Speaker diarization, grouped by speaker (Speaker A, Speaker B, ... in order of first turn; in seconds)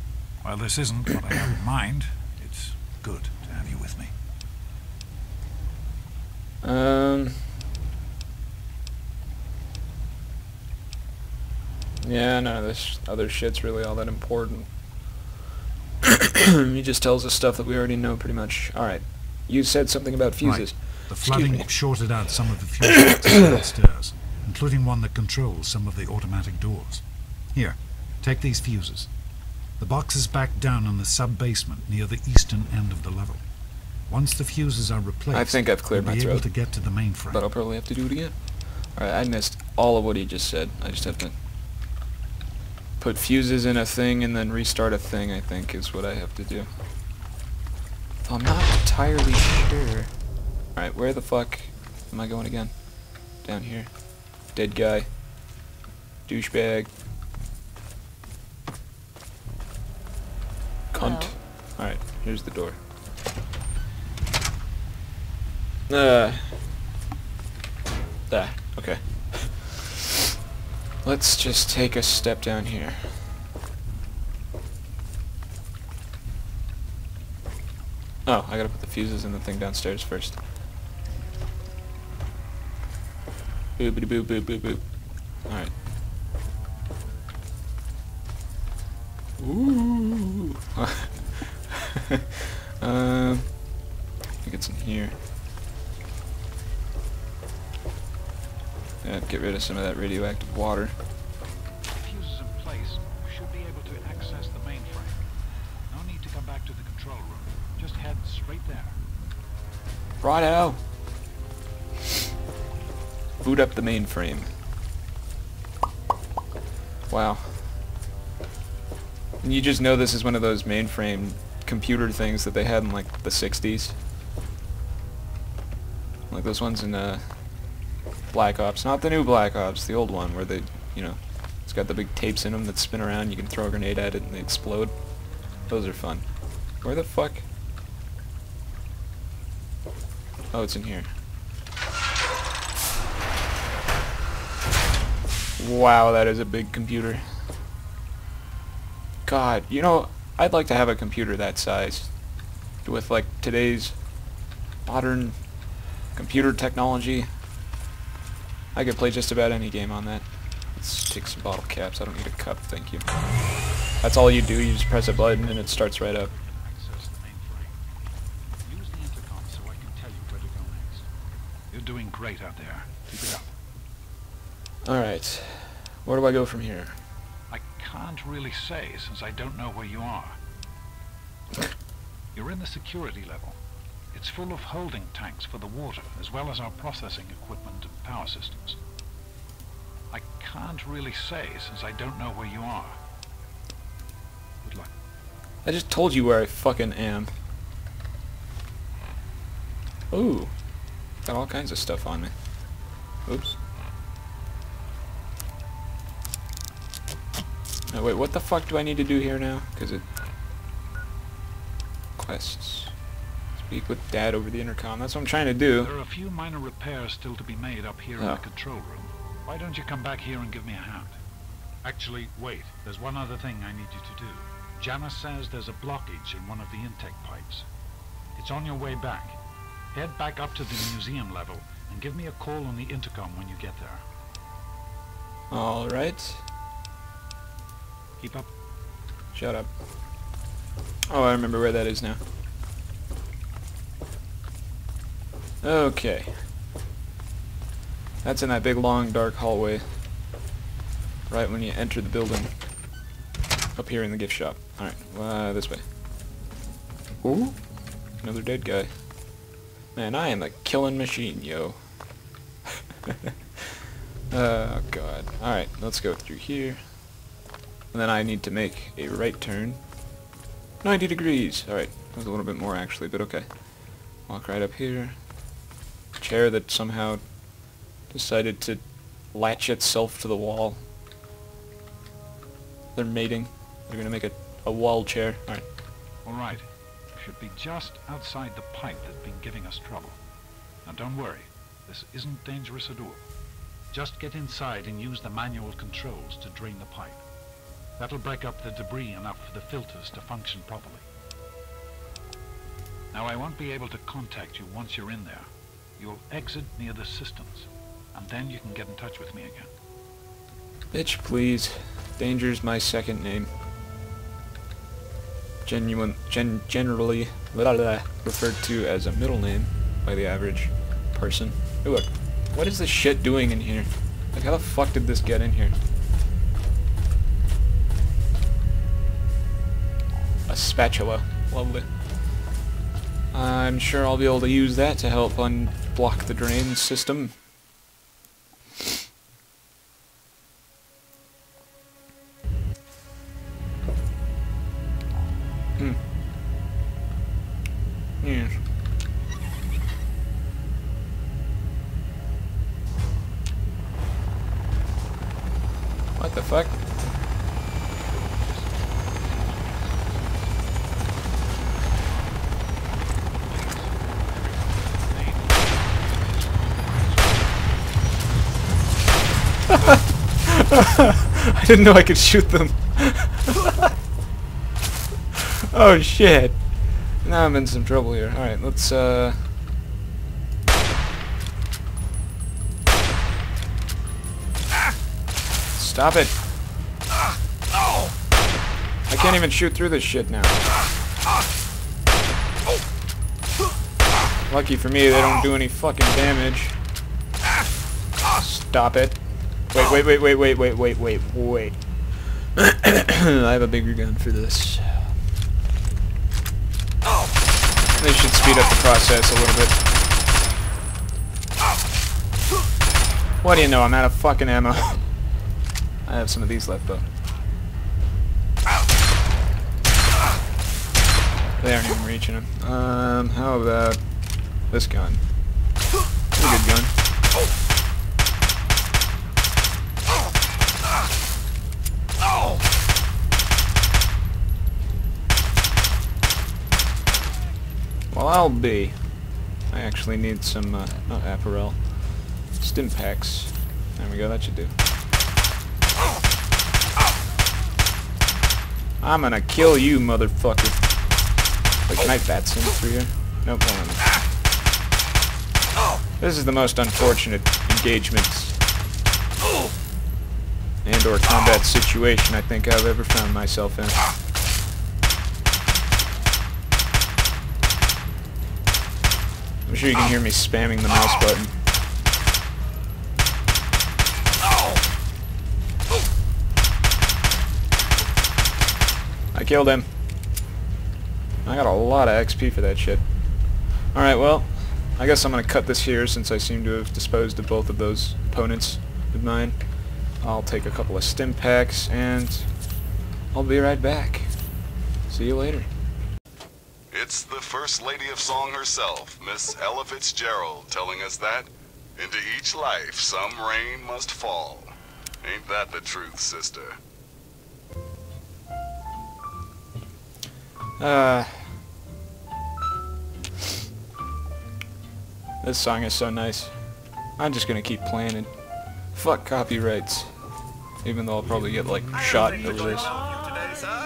Speaker A: 0.4-4.1, 20.4-27.0, 27.6-29.1, 29.8-33.4, 34.1-37.4, 102.0-105.2, 105.9-109.0, 166.3-167.8, 168.7-171.1, 171.7-173.5, 177.5-180.4, 182.3-183.6, 184.1-188.8, 190.1-193.0, 194.6-194.9, 215.8-221.2, 221.8-227.7, 228.4-229.4, 229.9-234.0, 238.2-238.5, 286.2-286.6, 287.2-290.2, 290.8-293.3, 293.9-297.2, 298.0-301.1, 303.1-309.7, 358.4-360.4, 363.4-367.7
Speaker B: 6.6-7.4, 12.0-14.7, 16.0-21.7, 22.9-23.4, 35.3-36.5, 37.3-38.4, 39.0-41.4, 43.0-46.7, 48.2-50.1, 50.8-52.8, 53.4-53.9, 54.5-55.1, 56.3-56.9, 60.9-62.8, 65.9-66.5, 68.3-70.2, 71.0-73.2, 78.3-80.4, 83.8-84.8, 85.5-85.7, 89.4-93.5, 94.4-95.2, 99.0-101.0, 110.2-110.8, 113.4-114.5, 117.1-117.5, 119.4-124.0, 126.3-127.2, 128.3-134.9, 135.7-136.2, 136.8-137.4, 140.5-141.1, 145.6-147.2, 149.3-152.1, 152.8-153.9, 154.9-155.4, 156.2-157.3, 158.7-163.1, 164.0-166.3, 174.8-177.0, 195.6-197.3, 200.1-200.5, 201.2-202.3, 203.3-203.6, 207.9-210.0, 212.2-212.9, 213.6-215.9, 235.5-236.4, 239.3-239.7, 241.1-242.2, 245.6-246.3, 248.2-249.8, 251.3-252.5, 253.8-255.8, 257.2-257.6, 258.2-258.9, 259.9-261.8, 263.1-263.3, 264.3-266.8, 267.9-269.8, 270.8-273.5, 274.3-275.2, 276.2-277.2, 278.1-278.8, 279.3-280.8, 282.9-285.6, 310.9-313.5, 315.7-325.8, 330.5-331.9, 333.3-337.3, 348.2-348.6, 356.2-356.8, 369.7-373.9, 375.4-376.6, 377.2-379.4, 385.8-386.4, 389.1-390.6, 394.5-396.8, 398.3-399.2, 399.7-401.8, 402.6-405.1, 407.9-409.8, 413.4-415.0, 416.1-417.1, 421.6-424.0, 424.7-425.2, 426.3-426.9, 438.1-438.9, 439.7-441.8, 442.6-444.7, 449.0-450.9, 451.9-454.1, 456.2-458.6, 460.8-464.0, 469.7-471.5, 479.3-479.9, 481.4-483.0, 483.9-489.6, 490.2-492.5, 493.3-494.3, 495.1-495.7, 510.8-511.5, 515.4-516.5, 517.2-518.3, 518.9-520.1, 520.8-523.0
Speaker C: 496.9-504.7, 505.2-506.8